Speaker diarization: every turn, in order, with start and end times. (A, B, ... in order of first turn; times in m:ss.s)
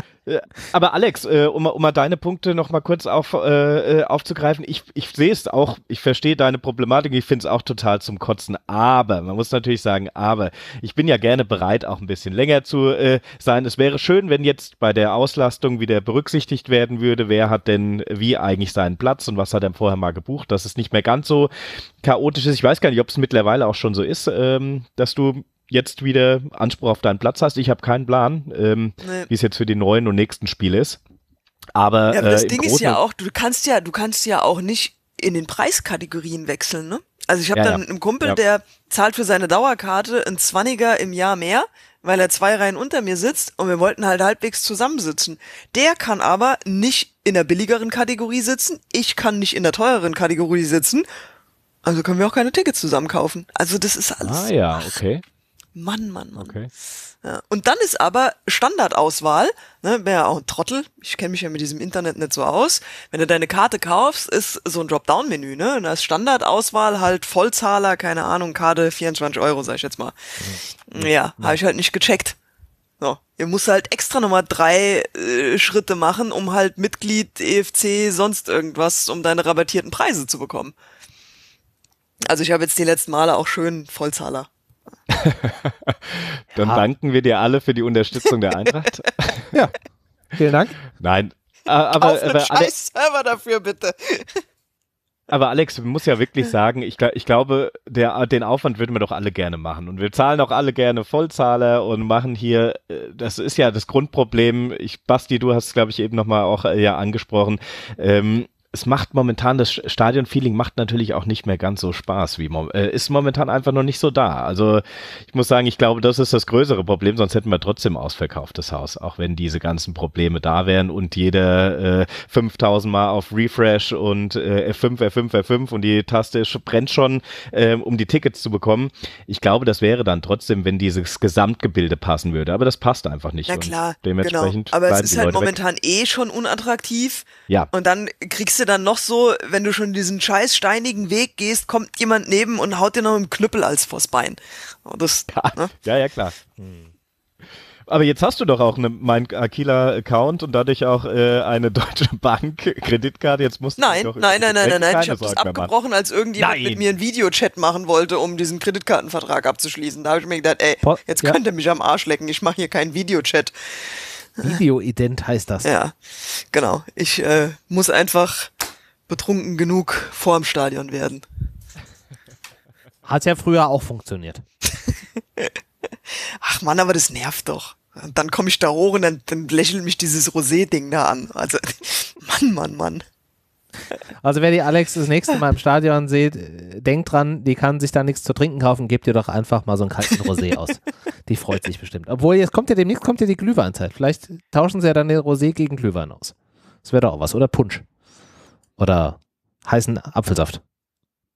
0:00.2-0:21.5 A
0:22.0-0:31.0 A
0:29.0-0:29.3 B
0:31.8-0:33.0 A
0:32.1-0:51.0 B
0:37.5-0:38.4 A
0:51.8-0:55.0 B
0:54.2-0:55.2 A
0:55.7-0:56.5 B
0:56.3-0:56.7 A
0:57.2-1:12.4 B
1:10.4-1:11.6 C
1:13.0-1:20.7 B
1:22.3-1:24.5 B
1:25.1-1:29.5 A
1:30.4-1:30.8 C
1:31.0-1:32.7 A
1:32.0-1:34.4 B
1:35.3-2:15.6 A
2:13.5-2:25.7 B
2:25.3-2:26.4 A
2:26.6-2:26.9 C
2:27.9-2:35.7 A
2:33.8-2:44.6 B
2:36.4-2:36.7 A
2:36.4-2:36.8 C
2:40.8-2:41.4 C
2:44.4-2:45.7 C
2:45.6-2:48.5 B
2:49.1-2:51.2 B
2:53.0-2:54.4 C
2:56.1-3:03.0 B
3:04.2-3:17.8 C
3:18.8-3:20.6 C